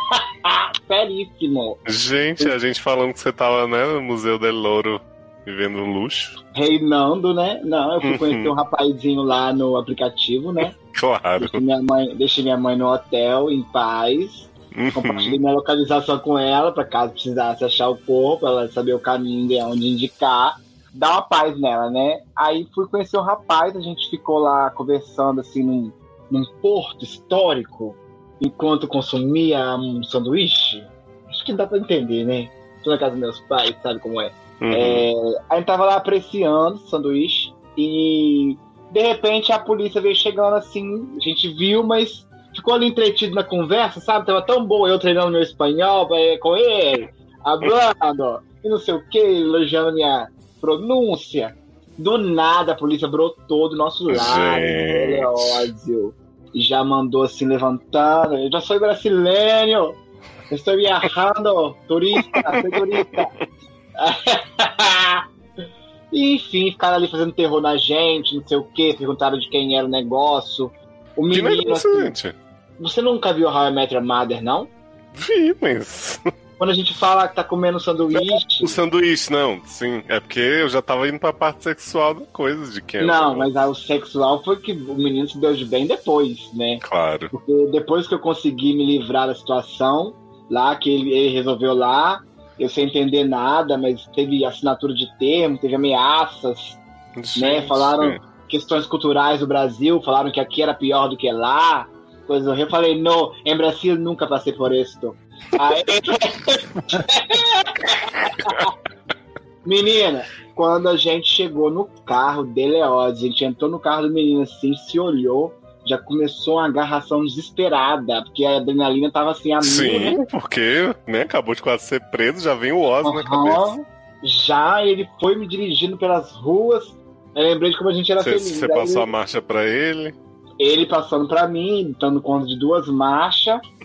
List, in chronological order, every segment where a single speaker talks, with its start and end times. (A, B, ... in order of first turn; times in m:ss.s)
0:00.4-0:01.8 A
0:01.9-0:06.4 B
0:06.5-0:10.7 A
0:08.0-0:08.5 B
0:10.8-0:11.6 B
0:11.4-1:00.0 A
0:14.8-0:15.4 B
0:34.6-0:35.1 B
0:54.1-0:55.7 B
1:00.5-1:03.3 A
1:02.3-1:03.3 B
1:04.0-1:05.2 A
1:06.1-1:12.2 A
1:11.3-1:12.4 B
1:12.8-1:14.7 A
1:15.1-1:16.2 B
1:16.6-1:18.8 A
1:18.1-1:23.5 B
1:23.0-1:36.8 A
1:26.8-1:27.3 B
1:37.2-1:38.2 B
1:37.4-1:48.7 A
1:49.6-2:00.2 A
1:59.6-2:03.7 B
2:03.0-2:09.1 A
2:08.2-2:10.2 B
2:10.6-2:13.6 A